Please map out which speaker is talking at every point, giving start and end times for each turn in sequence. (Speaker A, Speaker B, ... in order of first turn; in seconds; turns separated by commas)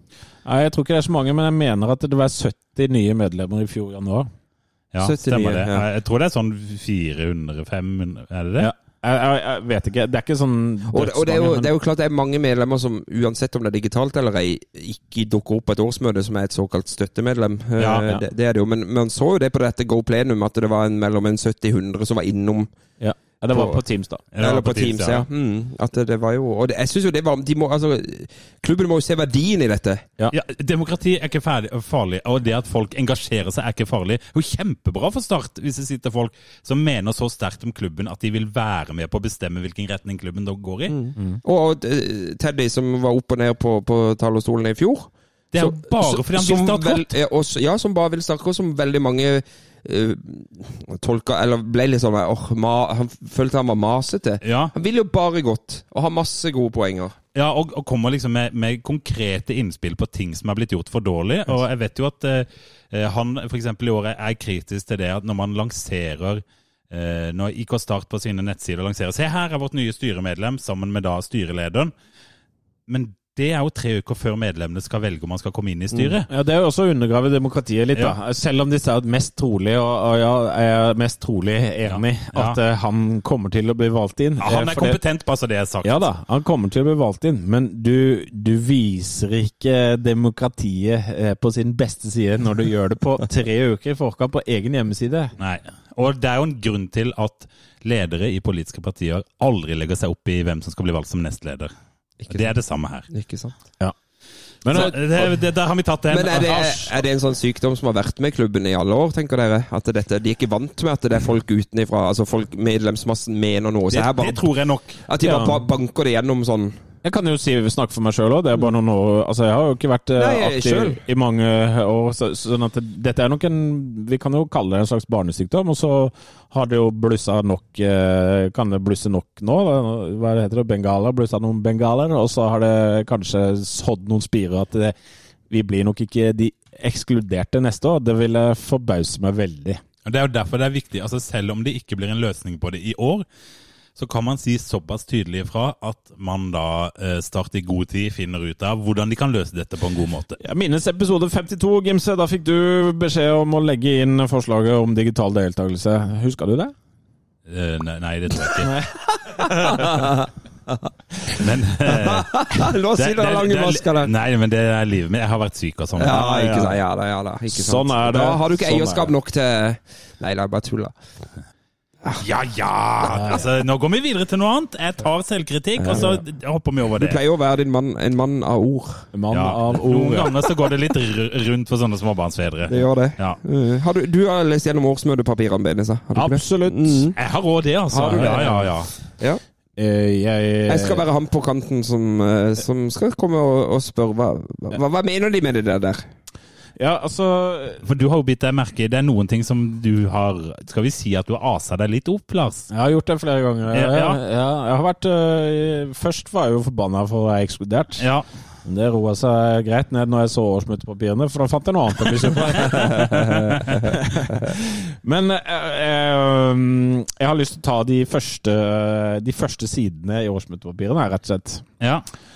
Speaker A: 0.4-4.3, Speaker B: 4.9-8.7, Speaker C: 5.0-5.8, Speaker A: 8.6-11.7, Speaker C: 10.9-22.7, Speaker B: 17.8-18.1, Speaker A: 23.0-24.2, Speaker C: 23.5-23.8, Speaker B: 24.3-25.2, Speaker C: 24.4-30.0, Speaker B: 30.3-40.9, Speaker C: 40.9-57.1, Speaker B: 45.5-47.1, Speaker B: 54.4-54.7, Speaker B: 57.3-71.9, Speaker B: 72.9-76.3, Speaker A: 76.2-85.0, Speaker B: 81.9-82.6, Speaker B: 84.4-86.1, Speaker A: 85.8-95.3, Speaker B: 95.4-101.7, Speaker C: 102.2-102.5, Speaker B: 102.3-103.1, Speaker C: 103.1-103.5, Speaker A: 104.6-105.3, Speaker B: 104.7-106.9, Speaker C: 106.1-114.5, Speaker B: 113.9-115.0, Speaker C: 115.0-116.8, Speaker A: 115.2-115.6, Speaker A: 117.0-134.9, Speaker C: 120.2-121.0, Speaker A: 135.5-139.8, Speaker B: 140.0-143.2, Speaker B: 144.0-150.4, Speaker A: 150.4-156.7, Speaker B: 157.5-158.7, Speaker A: 158.5-160.1, Speaker B: 161.3-166.6, Speaker C: 161.8-164.1, Speaker C: 166.0-170.9, Speaker A: 166.1-166.7, Speaker A: 167.5-169.1, Speaker B: 172.1-177.2, Speaker C: 175.8-176.2, Speaker C: 176.9-179.1, Speaker A: 179.1-180.3, Speaker B: 179.3-183.4, Speaker C: 182.7-187.2, Speaker A: 186.1-187.1, Speaker B: 187.2-188.9, Speaker C: 187.9-188.6, Speaker A: 187.9-188.7, Speaker A: 189.8-191.0, Speaker C: 190.7-196.1, Speaker A: 196.8-197.8, Speaker B: 197.8-202.7, Speaker A: 202.7-208.1, Speaker B: 203.7-204.2, Speaker B: 208.0-208.2, Speaker A: 208.6-221.6, Speaker B: 221.8-222.1